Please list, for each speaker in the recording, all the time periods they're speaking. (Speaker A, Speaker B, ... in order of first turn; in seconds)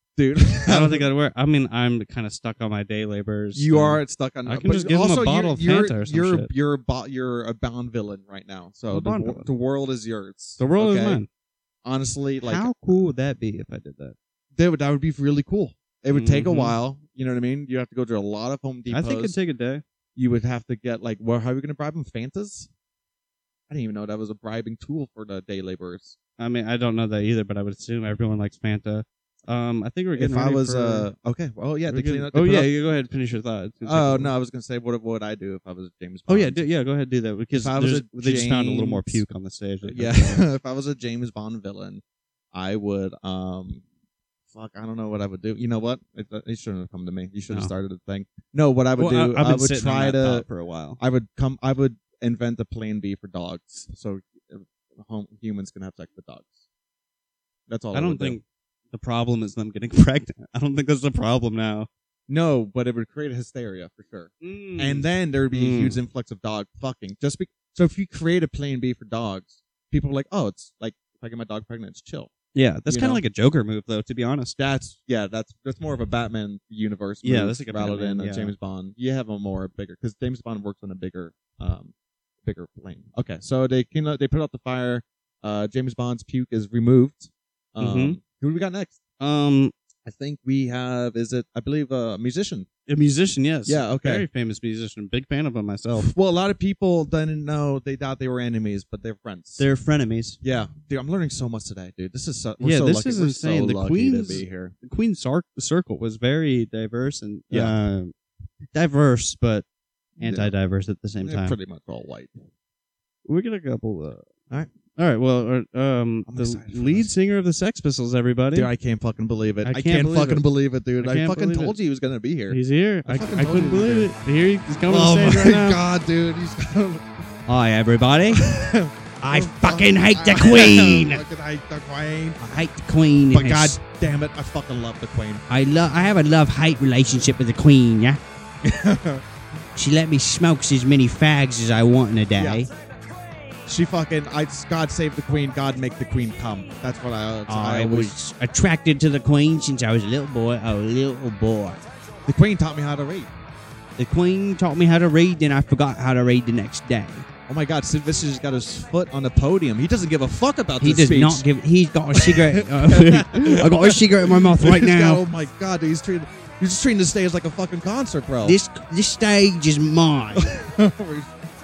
Speaker A: 0.1-1.1, 3.5-11.2, 11.8-12.7, 14.6-19.4, 20.1-22.7, 23.7-26.1, 30.1-32.7, 33.9-36.6, 37.5-39.2, 39.9-42.0, 42.5-43.8, 44.5-50.5, 51.0-56.6, 57.7-58.4, 62.3-72.3, 72.9-73.2, 74.6-81.9, 82.4-89.0, 90.0-92.7, 93.7-94.2, 96.0-99.6, 100.4-104.7, 110.2-110.5, 111.2-112.3, 116.3-117.1, 118.5-124.1, 124.9-127.1, 128.3-132.4, 133.3-135.4, 138.6-139.2, 142.3-142.7, 143.7-148.1, 152.2-153.3, 157.5-161.4, 162.1-168.6, 170.4-171.3
Speaker B: 0.6-6.5, 8.9-9.5, 10.6-11.3, 12.4-14.2, 16.1-16.8, 18.9-19.8, 26.4-31.1, 31.9-34.3, 36.3-40.4, 49.0-51.0, 57.9-61.9, 64.4-66.0, 72.5-74.6, 77.2-78.5, 87.8-88.2, 89.2-89.7, 92.9-96.1, 99.6-100.4, 102.6-108.1, 108.7-109.6, 110.2-111.6, 113.2-114.2, 115.0-118.7, 119.6-120.4, 121.0-121.8, 122.5-125.8, 127.5-128.5, 129.2-131.2, 132.4-133.8, 135.5-138.2, 139.8-142.7, 147.5-151.8, 154.0-157.3, 160.8-165.2, 168.4-170.5